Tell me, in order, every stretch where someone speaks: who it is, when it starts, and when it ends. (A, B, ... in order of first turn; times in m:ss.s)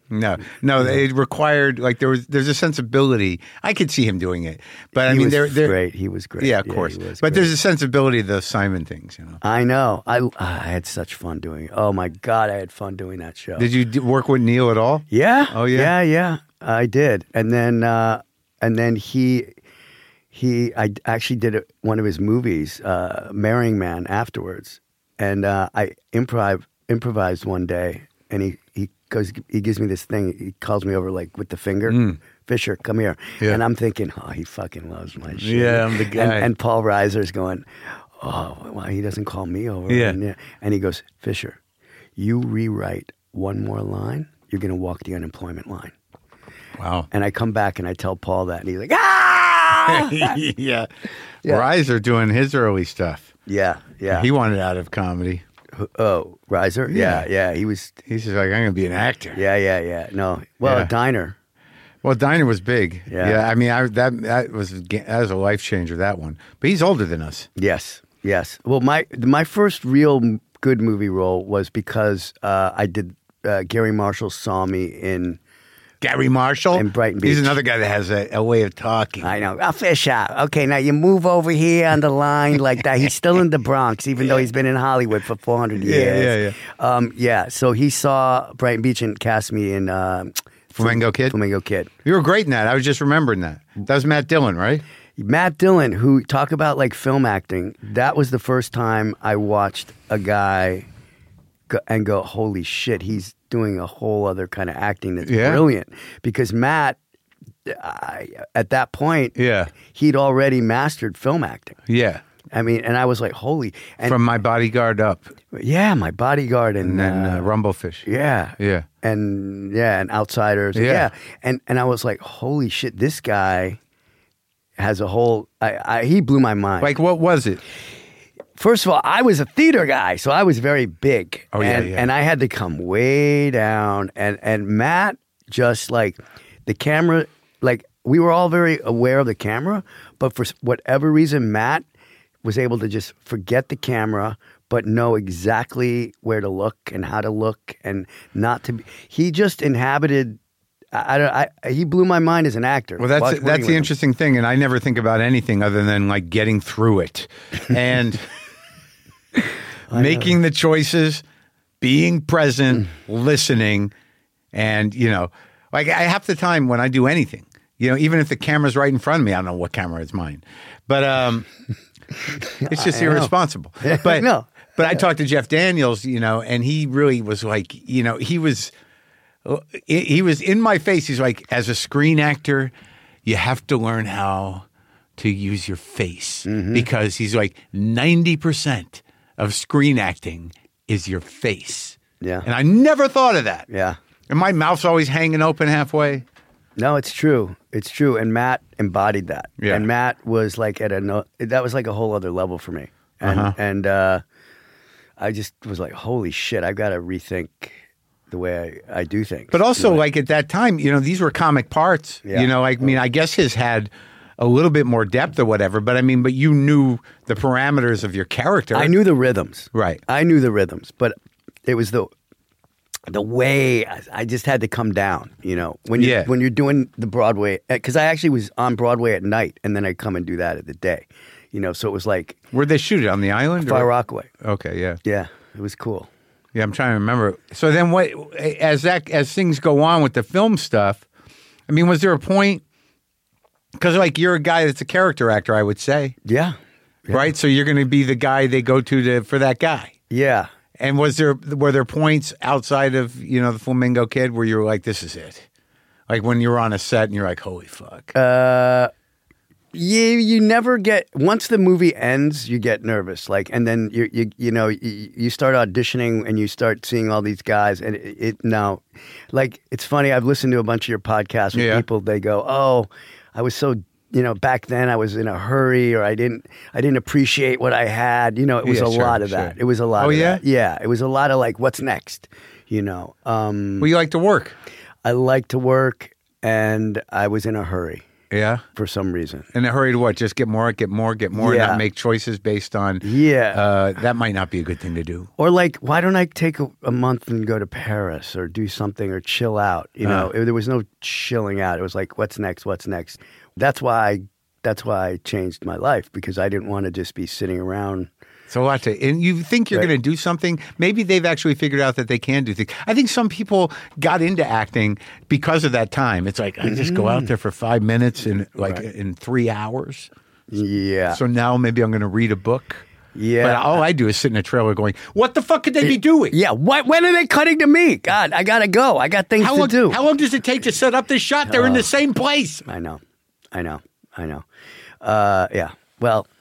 0:00.1-0:05.8 A
0:05.0-0:07.5 B
0:06.4-0:09.4 A
0:09.4-0:13.7 B
0:13.6-0:15.9 A
0:15.1-0:19.5 B
0:20.3-0:37.6 B
0:31.9-0:32.2 A
0:35.4-0:36.5 A
0:38.2-0:41.6 B
0:39.9-0:40.2 A
0:42.2-0:45.9 B
0:46.8-0:47.1 A
0:47.1-0:50.4 B
0:49.9-0:50.9 A
0:51.4-0:53.3 A
0:53.4-0:54.3 B
0:54.1-0:55.4 A
0:55.7-0:58.0 B
0:56.9-0:57.2 A
0:58.0-0:59.4 A
0:59.3-1:01.4 B
1:00.6-1:00.9 A
1:02.0-1:07.5 A
1:03.1-1:03.4 B
1:07.6-1:15.4 B
1:16.0-1:19.3 A
1:16.7-1:17.6 B
1:19.2-1:31.9 B
1:25.8-1:26.6 A
1:30.7-1:31.3 A
1:32.0-1:34.8 A
1:35.2-1:40.8 B
1:41.7-1:47.0 B
1:45.2-1:45.6 A
1:47.6-1:51.8 B
1:49.4-1:49.7 A
1:51.9-1:52.2 A
1:52.5-1:54.2 B
1:54.0-1:55.3 A
1:55.5-1:57.5 B
1:56.8-1:58.0 A
1:58.0-2:03.8 B
1:58.6-1:58.8 A
2:00.7-2:01.1 A
2:04.8-2:06.9 B
2:06.8-2:07.6 A
2:08.6-2:21.8 B
2:11.5-2:12.1 A
2:22.4-2:30.4 B
2:30.9-2:33.9 B
2:33.0-2:38.2 A
2:39.9-2:40.3 B
2:39.9-2:41.2 A
2:41.8-2:43.9 A
2:44.5-2:51.5 A
2:52.4-2:55.0 B
2:52.6-2:58.7 A
2:59.4-3:02.7 A
3:03.2-3:04.6 A
3:05.2-3:13.7 A
3:06.4-3:06.9 B
3:12.2-3:12.5 B
3:13.7-3:14.0 B
3:14.3-3:16.2 A
3:16.8-3:24.2 B
3:19.6-3:19.8 A
3:23.2-3:23.5 A
3:25.2-3:27.8 B
3:28.3-3:30.0 B
3:29.5-3:38.9 A
3:32.2-3:32.9 B
3:38.7-3:41.1 B
3:39.7-3:40.0 A
3:41.6-3:42.1 B
3:43.1-3:52.4 B
3:46.0-3:46.3 A
3:52.5-3:53.9 A
3:53.6-3:54.3 B
3:54.4-3:55.0 A
3:55.0-3:56.1 B
3:56.5-4:01.0 A
4:01.7-4:02.6 A
4:03.8-4:06.1 A
4:06.2-4:06.5 B
4:07.1-4:09.9 A
4:10.1-4:10.5 B
4:10.8-4:15.5 A
4:16.1-4:18.1 A
4:18.1-4:18.9 B
4:19.7-4:43.9 B
4:31.5-4:31.8 A
4:38.6-4:40.4 A
4:43.8-4:44.6 A
4:45.0-4:48.0 B
4:48.3-4:48.6 A
4:48.7-4:49.5 B
4:49.5-4:55.3 A
4:51.3-4:51.8 B
4:53.0-4:53.6 B
4:55.4-5:08.1 B
5:08.5-5:20.1 A
5:16.6-5:17.3 B
5:20.5-5:21.2 B
5:21.1-5:22.8 A
5:23.1-5:23.8 B
5:23.4-5:26.4 A
5:25.8-5:30.0 B
5:29.4-5:32.6 A
5:31.5-5:31.9 B
5:32.6-5:33.0 B
5:33.5-5:34.4 B
5:35.0-5:36.3 B